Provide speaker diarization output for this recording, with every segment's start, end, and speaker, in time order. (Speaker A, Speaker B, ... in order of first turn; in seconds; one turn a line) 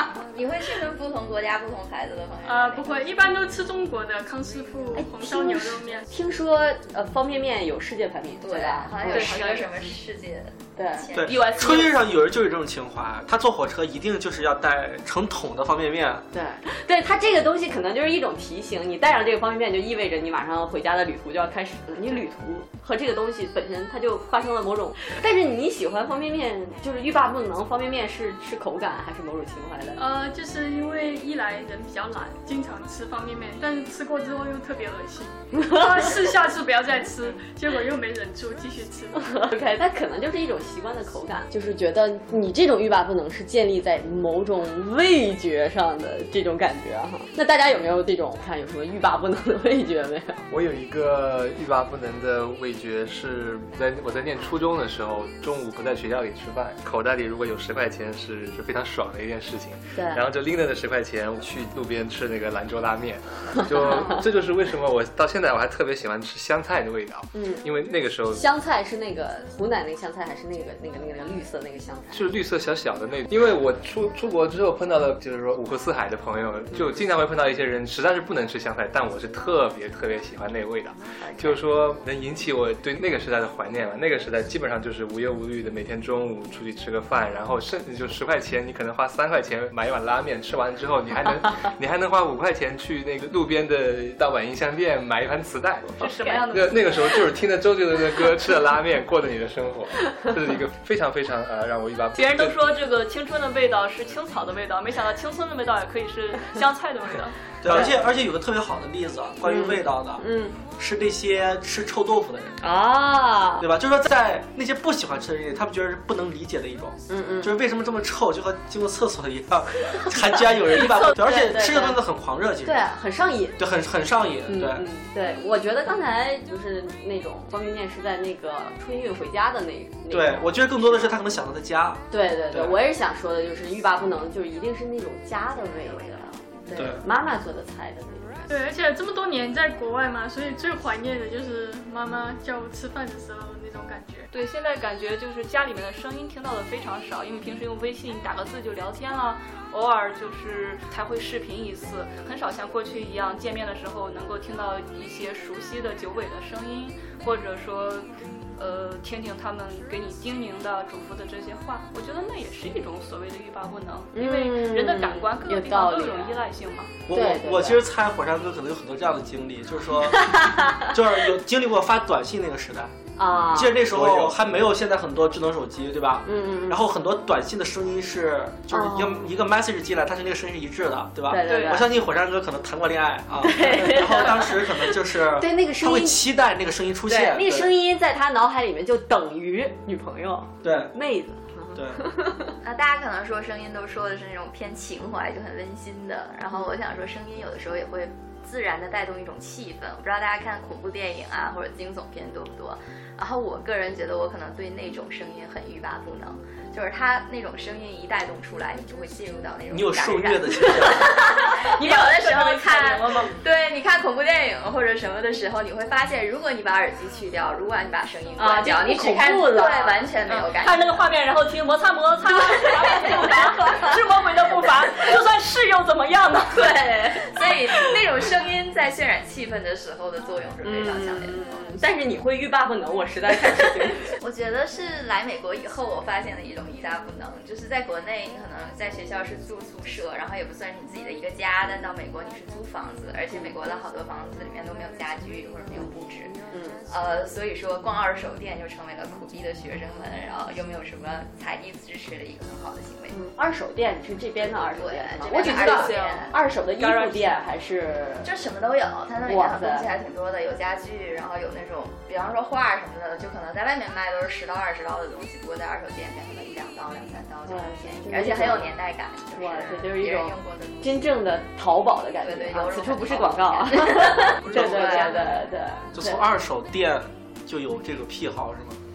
Speaker A: 0.3-3.1
Speaker B: 2.5-6.1
Speaker C: 5.0-9.5
Speaker A: 8.4-12.0
Speaker D: 9.0-9.7
Speaker C: 10.8-11.1
Speaker E: 11.2-16.3
Speaker D: 11.2-12.0
Speaker C: 16.3-30.0
Speaker B: 30.0-39.5
Speaker C: 35.6-36.0
Speaker C: 39.2-50.4
Speaker F: 50.5-68.4
Speaker C: 60.0-60.2
Speaker C: 63.9-64.2
Speaker C: 67.3-67.7
Speaker C: 68.3-72.3
Speaker F: 72.1-102.6
Speaker C: 81.2-81.6
Speaker D: 96.0-97.2
Speaker D: 102.2-107.5
Speaker E: 107.6-110.3
Speaker C: 109.5-110.6
Speaker E: 110.8-112.6
Speaker C: 112.6-113.7
Speaker E: 113.6-122.8
Speaker C: 117.1-117.5
Speaker C: 120.9-122.0
Speaker C: 122.6-123.6
Speaker E: 123.6-124.9
Speaker C: 124.5-131.2
Speaker E: 130.1-132.8
Speaker C: 132.1-138.5
Speaker E: 136.7-137.1
Speaker B: 138.5-144.3
Speaker D: 144.3-166.9
Speaker C: 164.1-166.4
Speaker E: 167.1-172.9
Speaker C: 167.1-167.8
Speaker C: 170.2-170.8
Speaker C: 173.2-173.9
Speaker E: 173.5-187.7
Speaker F: 174.0-174.3
Speaker C: 176.2-176.8
Speaker C: 178.7-179.3
Speaker C: 181.3-181.9
Speaker D: 181.4-181.8
Speaker C: 183.4-184.6
Speaker C: 185.4-186.2
Speaker C: 187.1-192.6
Speaker E: 190.6-190.9
Speaker E: 191.7-192.1
Speaker A: 192.6-220.9
Speaker E: 209.7-211.2
Speaker C: 210.8-211.7
Speaker D: 211.4-213.3
Speaker C: 218.4-220.1
Speaker D: 220.3-227.0
Speaker C: 222.5-224.0
Speaker C: 226.6-227.2
Speaker A: 227.2-231.5
Speaker C: 230.6-234.2
Speaker A: 234.2-253.2
Speaker C: 246.5-246.8
Speaker C: 253.1-258.3
Speaker A: 254.4-256.4
Speaker D: 255.3-257.4
Speaker A: 258.2-271.1
Speaker C: 259.3-259.9
Speaker C: 267.5-268.7
Speaker C: 269.4-276.2
Speaker A: 272.2-275.4
Speaker E: 275.9-278.8